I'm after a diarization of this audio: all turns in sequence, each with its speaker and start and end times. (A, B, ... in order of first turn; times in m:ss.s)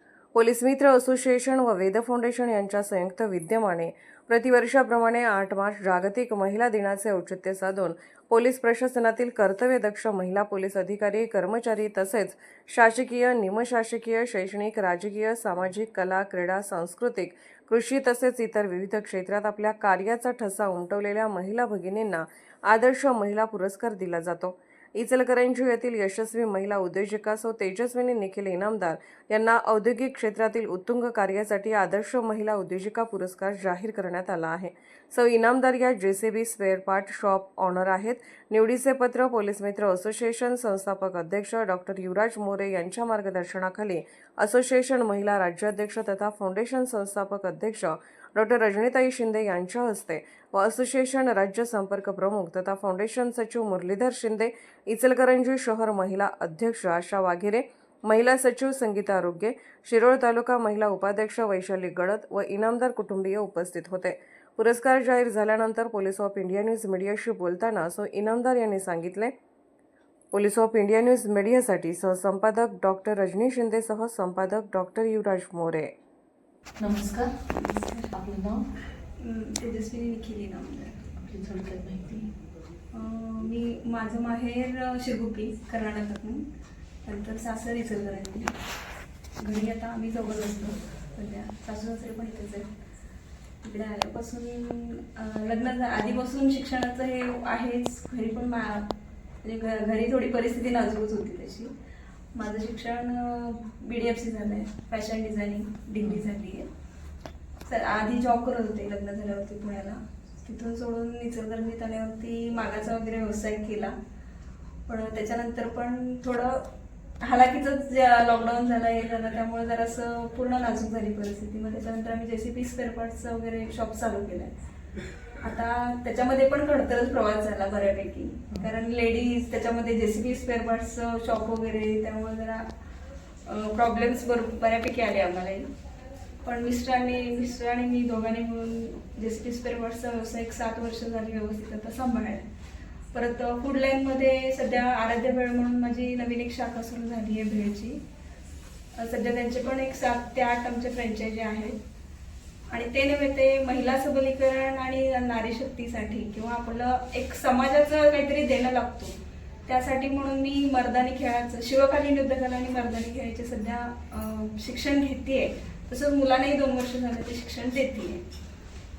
0:00.3-1:09.3 A
1:10.3-1:15.9 A
1:16.8-1:17.4 B
1:17.5-1:18.1 C
1:18.1-1:18.6 B
1:19.2-1:21.0 C
1:21.2-1:22.3 B
1:22.9-1:26.4 C
1:27.0-1:28.5 C
1:29.4-1:32.7 C
1:33.6-1:41.7 C
1:42.3-1:46.7 C
1:47.6-1:53.9 C
1:54.9-1:56.7 C
1:57.2-2:04.5 C
2:05.4-2:12.6 C
2:13.4-2:15.7 C
2:16.4-2:22.4 C
2:23.1-2:28.0 C
2:29.0-2:31.8 C
2:32.7-2:48.2 C